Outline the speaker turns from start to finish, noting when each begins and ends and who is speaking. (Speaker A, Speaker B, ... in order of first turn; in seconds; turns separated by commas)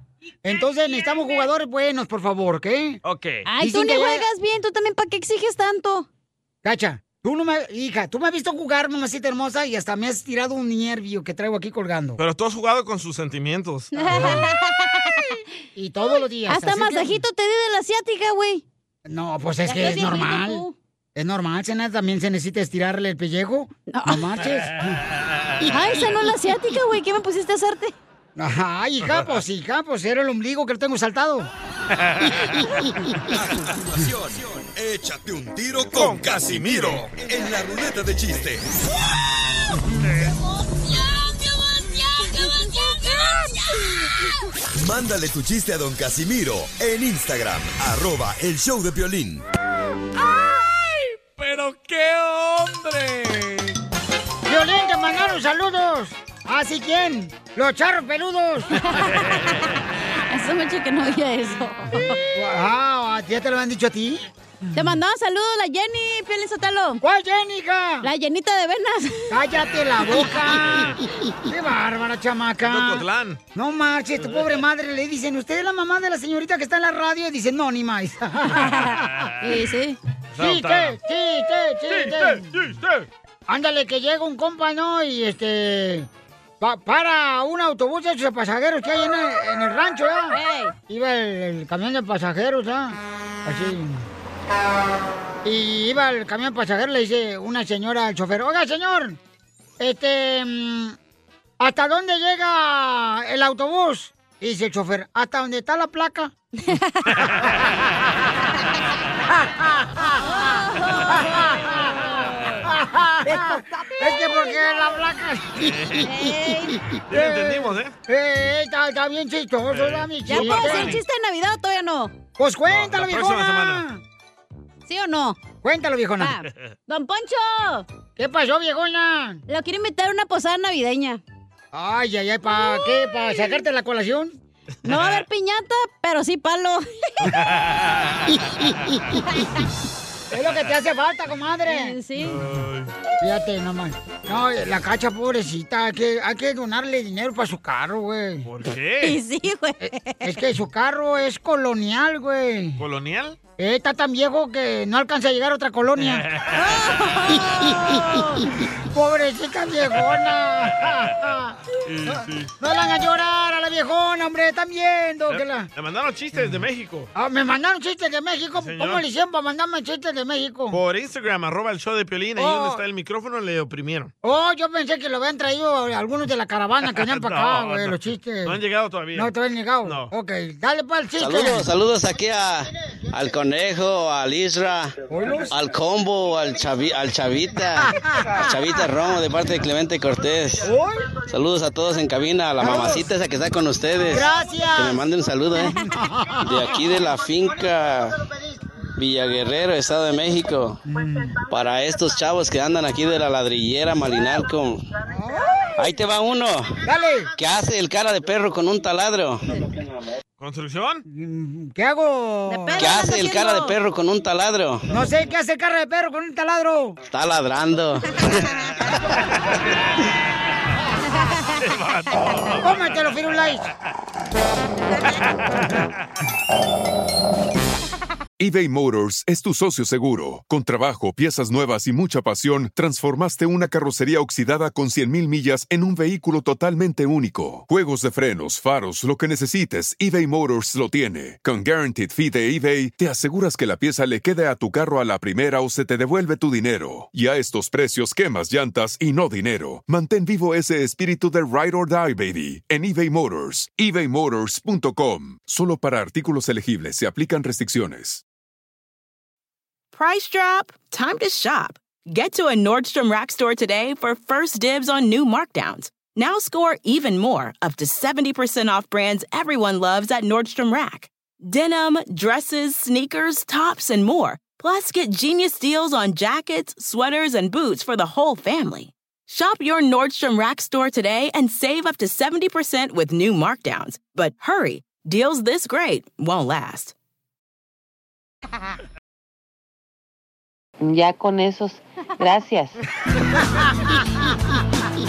Speaker A: 0.4-3.0, Speaker B: 3.0-3.5, Speaker C: 3.5-6.1, Speaker A: 3.6-4.2, Speaker A: 6.6-12.2, Speaker B: 12.2-14.3, Speaker C: 13.9-15.4, Speaker A: 14.1-14.5, Speaker A: 15.8-17.2, Speaker C: 16.5-18.6, Speaker A: 19.1-20.6, Speaker C: 19.7-20.8, Speaker A: 21.2-25.0, Speaker C: 23.9-24.2, Speaker C: 25.7-27.9, Speaker A: 28.4-31.5, Speaker B: 32.0-32.6, Speaker D: 33.3-38.7, Speaker B: 35.9-37.1, Speaker D: 44.7-49.4, Speaker B: 51.4-53.0, Speaker A: 54.5-58.8, Speaker C: 58.8-59.7, Speaker C: 60.3-62.2, Speaker A: 62.2-64.9, Speaker C: 64.8-67.0, Speaker A: 67.0-68.1, Speaker C: 68.0-69.3, Speaker A: 69.3-79.2, Speaker B: 72.6-73.4, Speaker C: 78.5-80.0, Speaker B: 80.3-81.0, Speaker A: 80.4-82.6, Speaker B: 81.9-83.1, Speaker A: 83.5-86.1, Speaker A: 86.6-90.4, Speaker C: 90.3-90.7, Speaker A: 90.9-94.1, Speaker A: 95.4-99.2, Speaker A: 99.8-101.0, Speaker A: 101.6-106.3, Speaker C: 106.7-107.1, Speaker B: 107.1-107.7, Speaker A: 109.4-110.5, Speaker C: 110.2-111.6, Speaker A: 111.1-112.0, Speaker C: 112.1-112.5, Speaker A: 112.6-121.0, Speaker B: 115.6-116.1, Speaker C: 116.0-116.8, Speaker B: 117.1-118.0, Speaker B: 119.7-121.0, Speaker C: 120.3-122.2, Speaker A: 122.4-124.0, Speaker B: 122.7-123.9, Speaker C: 124.9-125.4, Speaker A: 125.6-126.4, Speaker C: 126.2-127.9, Speaker A: 128.2-129.4, Speaker C: 129.5-131.2, Speaker A: 131.7-134.4, Speaker C: 132.5-132.9, Speaker C: 134.8-136.8, Speaker B: 134.9-135.2, Speaker B: 137.2-138.4, Speaker A: 140.3-142.0, Speaker C: 141.7-142.4, Speaker B: 142.2-142.9, Speaker A: 143.2-148.5, Speaker B: 148.4-149.2, Speaker C: 149.0-150.3, Speaker A: 150.2-152.8, Speaker B: 152.8-153.4, Speaker A: 153.6-156.2, Speaker B: 156.0-156.7, Speaker C: 156.5-158.4, Speaker A: 157.4-165.7, Speaker B: 161.8-162.5, Speaker B: 165.3-167.1, Speaker A: 167.1-170.8, Speaker B: 168.6-169.0, Speaker B: 170.7-174.1, Speaker A: 172.4-172.8, Speaker A: 174.2-178.6, Speaker B: 176.9-179.3, Speaker A: 179.1-181.6, Speaker B: 179.8-180.1, Speaker E: 181.2-184.9, Speaker A: 185.1-185.5, Speaker E: 185.5-190.7, Speaker A: 187.8-188.4, Speaker A: 190.6-191.1, Speaker E: 191.3-195.8, Speaker A: 192.6-193.1, Speaker A: 194.1-195.0, Speaker A: 195.8-196.6, Speaker E: 196.4-198.2, Speaker E: 199.0-200.8, Speaker A: 200.9-201.4, Speaker E: 201.5-204.8, Speaker A: 205.1-205.8, Speaker E: 205.8-206.7, Speaker A: 206.8-207.3, Speaker E: 207.4-209.5, Speaker B: 210.4-211.0, Speaker A: 211.1-212.9, Speaker C: 212.5-213.7, Speaker E: 212.8-214.9, Speaker A: 214.9-216.9, Speaker E: 217.1-219.0, Speaker B: 221.6-222.8, Speaker A: 222.6-223.7, Speaker F: 228.4-258.2, Speaker G: 259.9-286.9, Speaker H: 290.8-292.8, Speaker A: 293.5-294.3